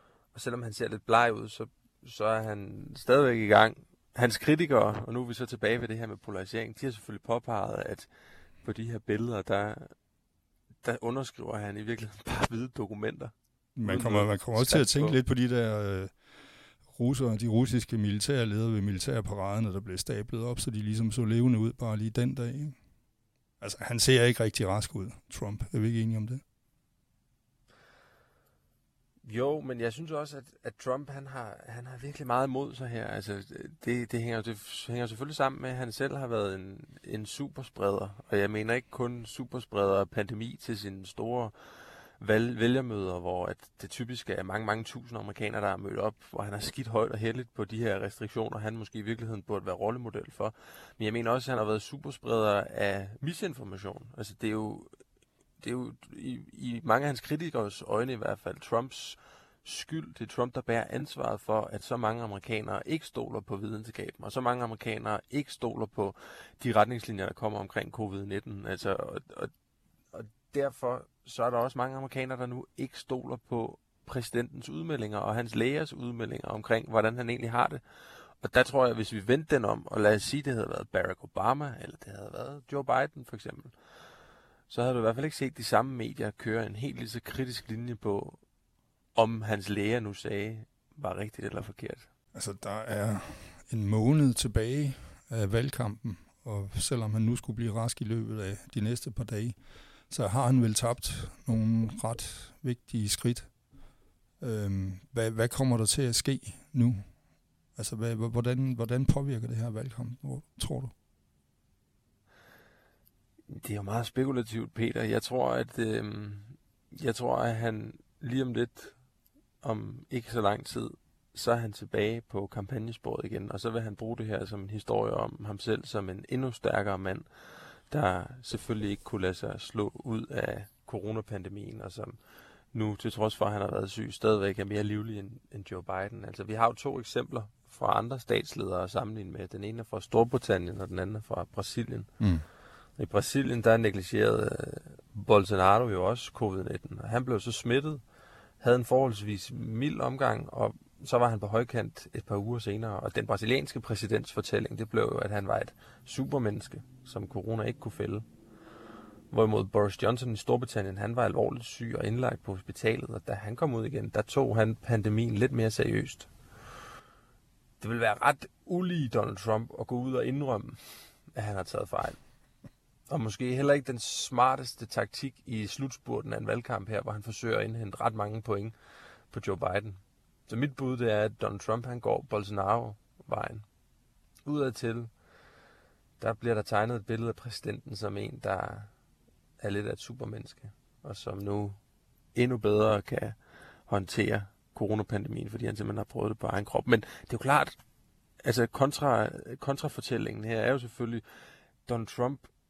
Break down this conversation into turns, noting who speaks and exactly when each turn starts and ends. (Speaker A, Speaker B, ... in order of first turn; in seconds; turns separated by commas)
Speaker A: 0.3-8.1, Speaker A: 8.6-9.9, Speaker A: 10.8-13.3, Speaker B: 13.8-16.1, Speaker A: 13.8-15.2, Speaker B: 16.9-22.8, Speaker B: 23.6-26.4, Speaker A: 29.2-41.5, Speaker A: 42.2-54.9, Speaker A: 55.6-69.5, Speaker A: 70.1-77.8, Speaker A: 78.4-83.7, Speaker A: 84.7-88.4, Speaker A: 89.1-92.1, Speaker B: 92.3-99.6, Speaker B: 100.1-103.5, Speaker B: 104.4-107.1, Speaker B: 107.8-110.9, Speaker A: 113.5-119.0, Speaker A: 119.6-127.3, Speaker A: 127.9-132.2, Speaker A: 132.7-142.1, Speaker B: 142.2-142.4, Speaker A: 143.0-148.0, Speaker A: 148.6-158.2, Speaker A: 159.3-166.3, Speaker A: 167.8-172.2, Speaker A: 173.1-178.7, Speaker A: 179.3-183.6, Speaker A: 184.4-185.1, Speaker A: 186.2-188.9, Speaker A: 189.6-191.8, Speaker A: 192.3-193.3, Speaker A: 193.9-197.8, Speaker A: 198.4-201.2, Speaker A: 201.8-202.5